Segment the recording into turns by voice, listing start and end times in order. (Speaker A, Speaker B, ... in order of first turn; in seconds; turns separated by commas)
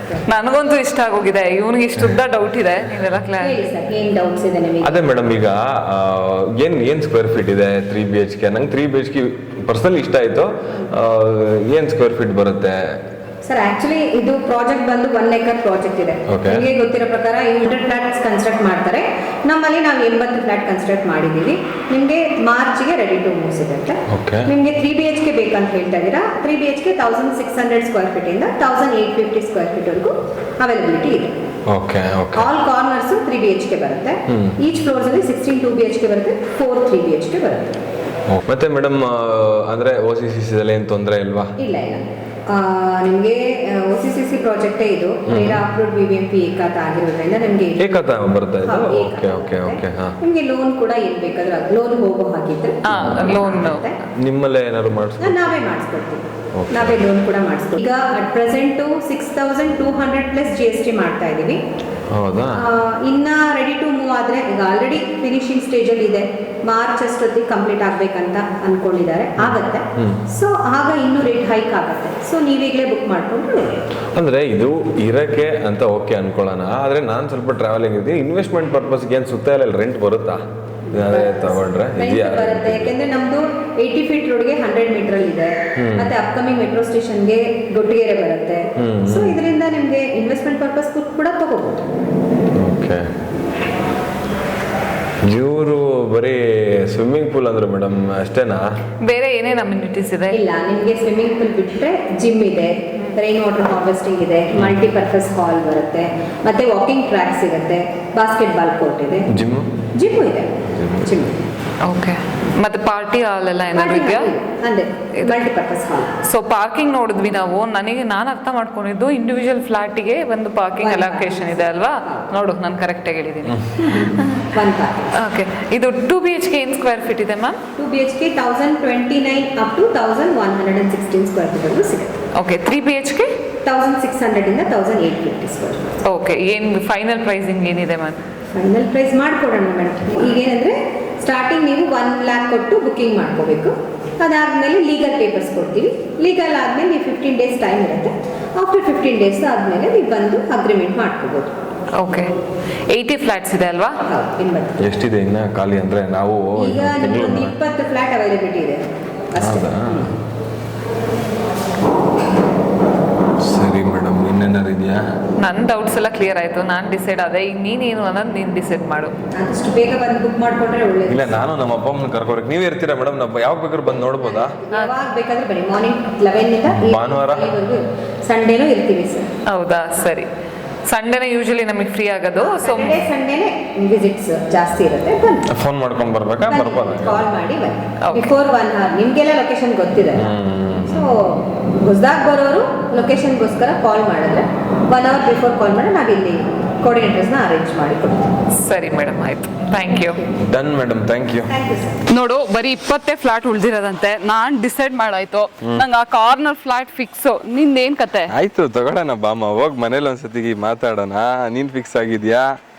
Speaker A: 0.3-3.7, Speaker B: 3.4-5.0, Speaker C: 4.8-13.0, Speaker B: 13.4-31.3, Speaker C: 16.3-16.7, Speaker C: 24.1-24.5, Speaker C: 31.7-32.5, Speaker B: 32.4-37.7, Speaker C: 34.3-34.6, Speaker C: 38.3-41.5, Speaker B: 41.6-47.8, Speaker C: 45.3-45.6, Speaker C: 47.8-50.2, Speaker B: 48.6-54.0, Speaker A: 52.8-53.9, Speaker C: 52.9-53.4, Speaker C: 54.2-55.4, Speaker B: 55.2-61.6, Speaker C: 56.6-57.0, Speaker C: 62.1-62.7, Speaker B: 62.5-73.7, Speaker C: 69.4-70.2, Speaker C: 74.2-82.9, Speaker B: 80.9-91.8, Speaker C: 85.8-86.1, Speaker C: 88.8-89.3, Speaker C: 92.6-93.1, Speaker C: 95.2-98.7, Speaker A: 99.0-100.4, Speaker B: 100.3-109.3, Speaker C: 104.5-104.8, Speaker C: 109.3-109.8, Speaker B: 110.0-111.4, Speaker C: 110.6-111.2, Speaker A: 111.8-114.3, Speaker B: 113.7-116.2, Speaker A: 115.2-115.5, Speaker A: 116.2-124.5, Speaker B: 120.8-122.3, Speaker B: 123.8-125.2, Speaker A: 125.1-127.6, Speaker B: 127.8-132.2, Speaker A: 132.4-133.3, Speaker B: 133.7-135.9, Speaker A: 136.0-138.2, Speaker B: 138.5-151.5, Speaker A: 152.0-152.3, Speaker A: 152.9-154.0, Speaker B: 154.1-154.9, Speaker C: 154.8-157.5, Speaker B: 156.6-160.0, Speaker C: 159.4-160.2, Speaker C: 163.4-165.0, Speaker A: 165.4-169.1, Speaker B: 169.4-171.4, Speaker C: 171.1-174.6, Speaker B: 174.6-179.3, Speaker A: 174.7-175.0, Speaker C: 176.7-177.5, Speaker A: 179.5-180.3, Speaker A: 180.9-183.1, Speaker B: 182.4-185.4, Speaker C: 185.5-187.3, Speaker B: 186.4-190.3, Speaker A: 188.0-188.3, Speaker C: 190.2-191.1, Speaker B: 190.9-198.3, Speaker A: 198.6-200.2, Speaker C: 200.4-201.5, Speaker B: 201.5-202.0, Speaker A: 202.1-208.3, Speaker C: 208.3-212.5